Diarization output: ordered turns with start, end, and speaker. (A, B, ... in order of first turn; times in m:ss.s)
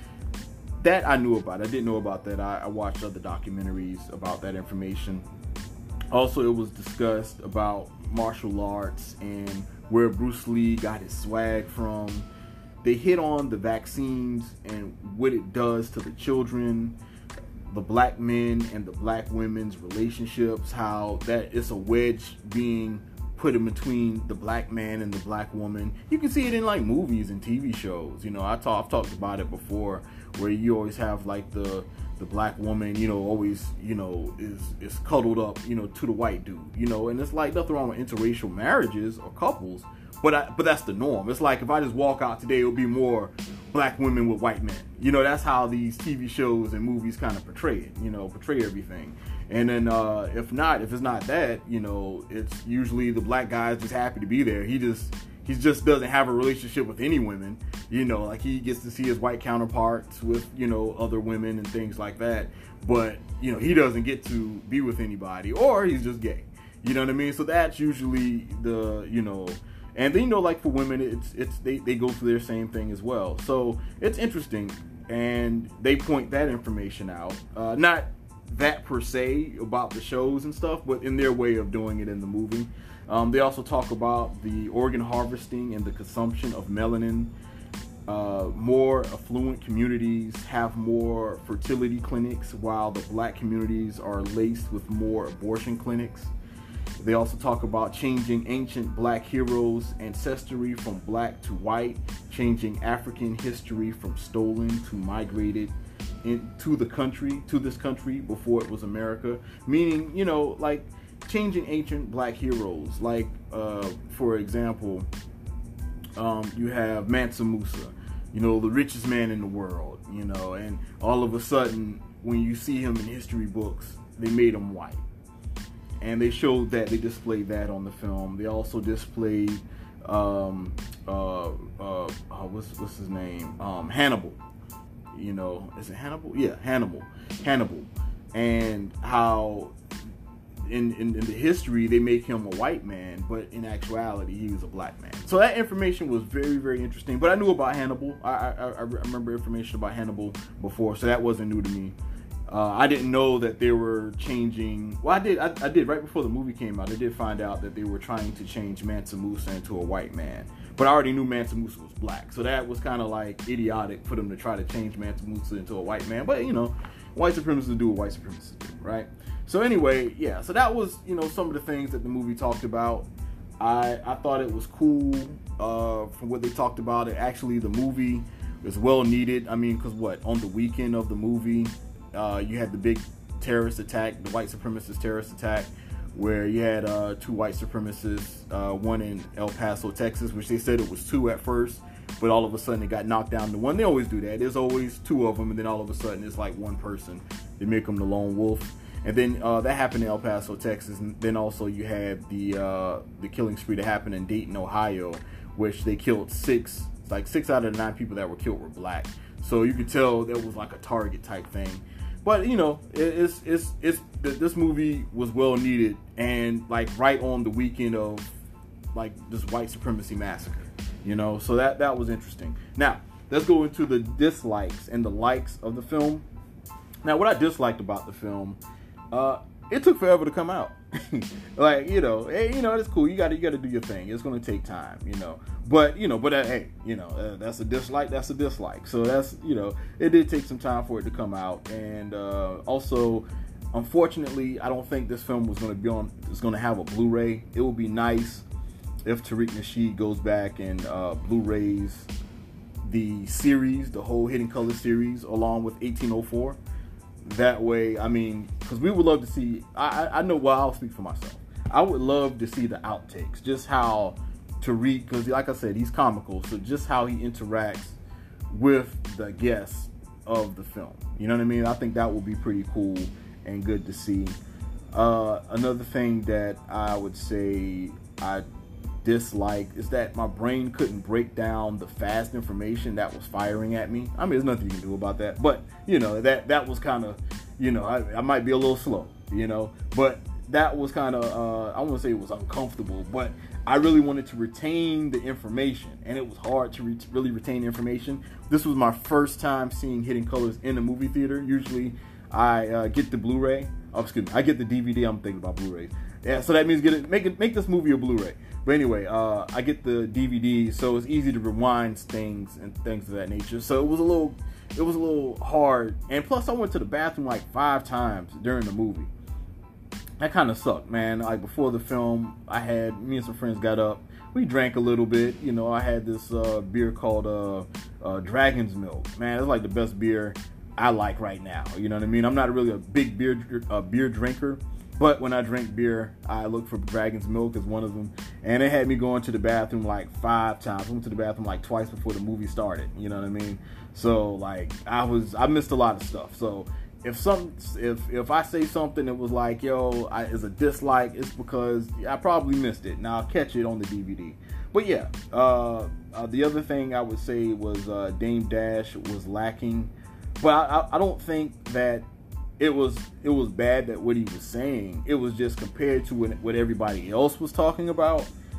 0:00.8-0:05.2 A
0:06.1-0:12.3 A
0:12.8-0:17.0 A
0:17.7-1:27.3 A
1:28.1-1:36.3 A
1:37.0-1:45.7 A
1:46.2-1:55.1 A
1:56.2-2:05.0 A
2:06.0-2:14.4 A
2:15.1-2:19.7 A
2:20.6-2:31.9 A
2:32.5-2:53.1 A
2:53.6-3:38.3 A
3:38.9-3:46.2 A
3:47.0-3:48.6 A
3:49.1-4:08.4 A
4:09.0-4:12.1 A
4:12.8-4:16.6 A
4:17.2-4:28.0 A
4:28.5-4:34.3 A
4:34.9-4:38.4 A
4:39.0-5:19.1 A
5:20.2-6:02.1 A
6:02.6-6:08.3 A